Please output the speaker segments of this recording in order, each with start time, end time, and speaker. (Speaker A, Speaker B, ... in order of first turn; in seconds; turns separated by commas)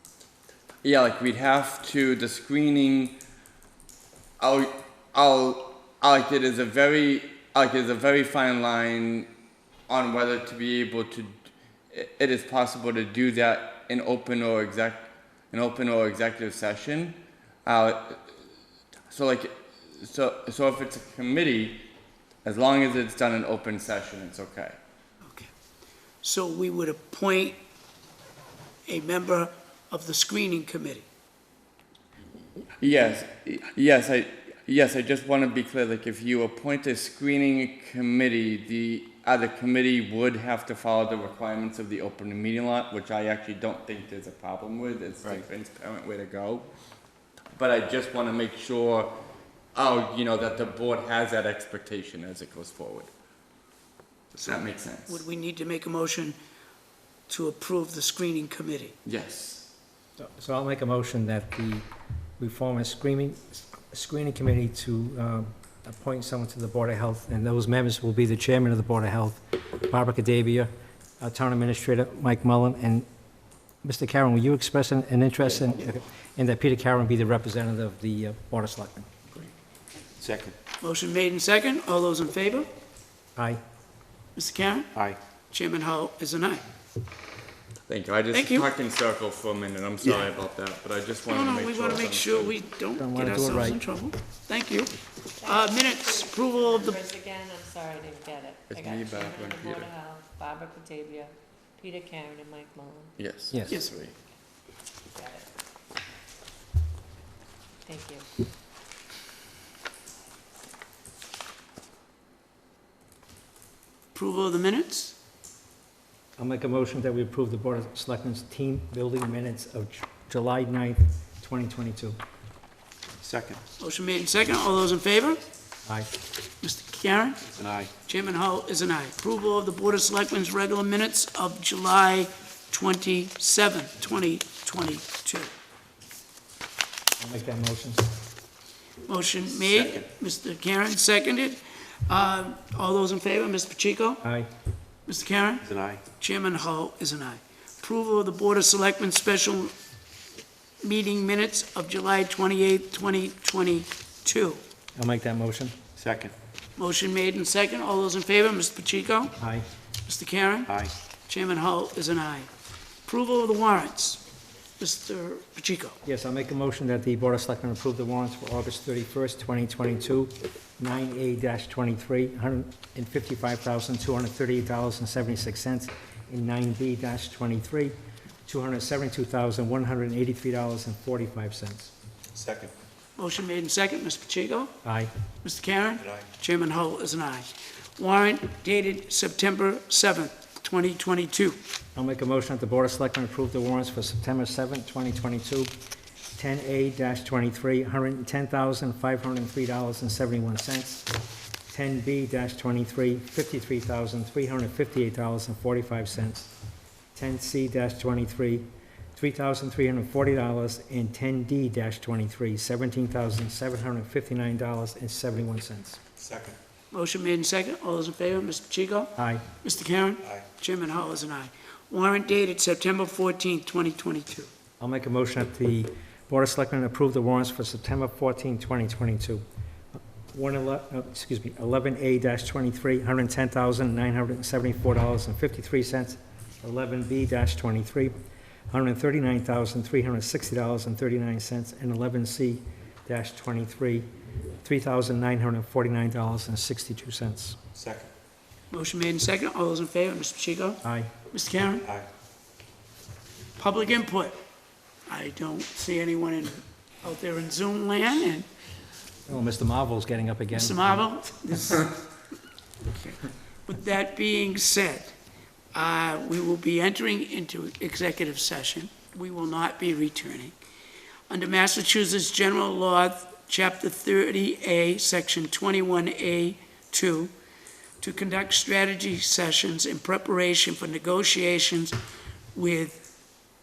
Speaker A: 0.8-3.2, Speaker A: 4.4-9.3, Speaker A: 9.9-11.3, Speaker A: 11.9-18.2, Speaker A: 19.1-21.9, Speaker A: 22.4-24.8, Speaker B: 25.2-25.5, Speaker B: 26.2-27.6, Speaker B: 28.9-31.0, Speaker A: 32.8-46.7, Speaker A: 47.5-49.1, Speaker A: 49.7-53.1, Speaker A: 54.3-55.2, Speaker B: 55.0-56.4, Speaker B: 57.3-58.9, Speaker A: 59.0-59.7, Speaker C: 60.2-61.8, Speaker C: 62.4-73.0, Speaker C: 73.8-79.1, Speaker D: 80.2-80.5, Speaker B: 80.8-82.7, Speaker C: 83.3-83.6, Speaker B: 84.3-84.9, Speaker B: 85.5-86.6, Speaker A: 87.9-92.6, Speaker B: 88.3-88.7, Speaker B: 91.3-97.1, Speaker C: 93.0-93.8, Speaker E: 95.4-103.2, Speaker A: 98.7-99.9, Speaker A: 103.2-104.1, Speaker E: 105.1-105.5, Speaker E: 107.8-108.2, Speaker B: 114.1-115.2, Speaker C: 116.4-122.2, Speaker D: 123.2-123.6, Speaker B: 123.8-125.5, Speaker B: 126.6-127.5, Speaker D: 127.5-127.9, Speaker B: 128.0-135.5, Speaker C: 137.2-138.1, Speaker B: 139.0-144.2, Speaker D: 139.6-140.0, Speaker C: 144.2-144.5, Speaker B: 145.1-149.7, Speaker D: 145.6-146.0, Speaker B: 150.8-154.6, Speaker C: 154.9-155.7, Speaker D: 156.0-156.3, Speaker B: 156.8-159.4, Speaker C: 159.4-159.6, Speaker B: 160.1-162.5, Speaker D: 160.7-160.9, Speaker B: 163.1-164.2, Speaker B: 164.8-166.0, Speaker C: 166.0-177.9, Speaker C: 178.4-181.9, Speaker D: 182.3-182.7, Speaker B: 183.2-184.7, Speaker C: 184.8-185.1, Speaker B: 185.4-191.6, Speaker D: 186.0-186.3, Speaker C: 191.9-195.7, Speaker C: 196.3-201.1, Speaker C: 201.7-206.5, Speaker C: 207.1-216.0, Speaker D: 216.2-216.6, Speaker B: 216.9-224.5, Speaker C: 219.2-219.4, Speaker C: 224.8-229.4, Speaker C: 230.3-238.1, Speaker C: 238.7-244.1, Speaker C: 244.6-247.6, Speaker D: 247.7-248.1, Speaker B: 248.7-251.9, Speaker C: 250.8-251.1, Speaker B: 253.6-254.4, Speaker B: 255.1-258.5, Speaker C: 259.3-261.1, Speaker B: 260.5-262.0, Speaker B: 262.9-265.1, Speaker B: 265.7-270.6, Speaker B: 271.3-277.3, Speaker B: 278.0-282.0, Speaker B: 282.5-283.1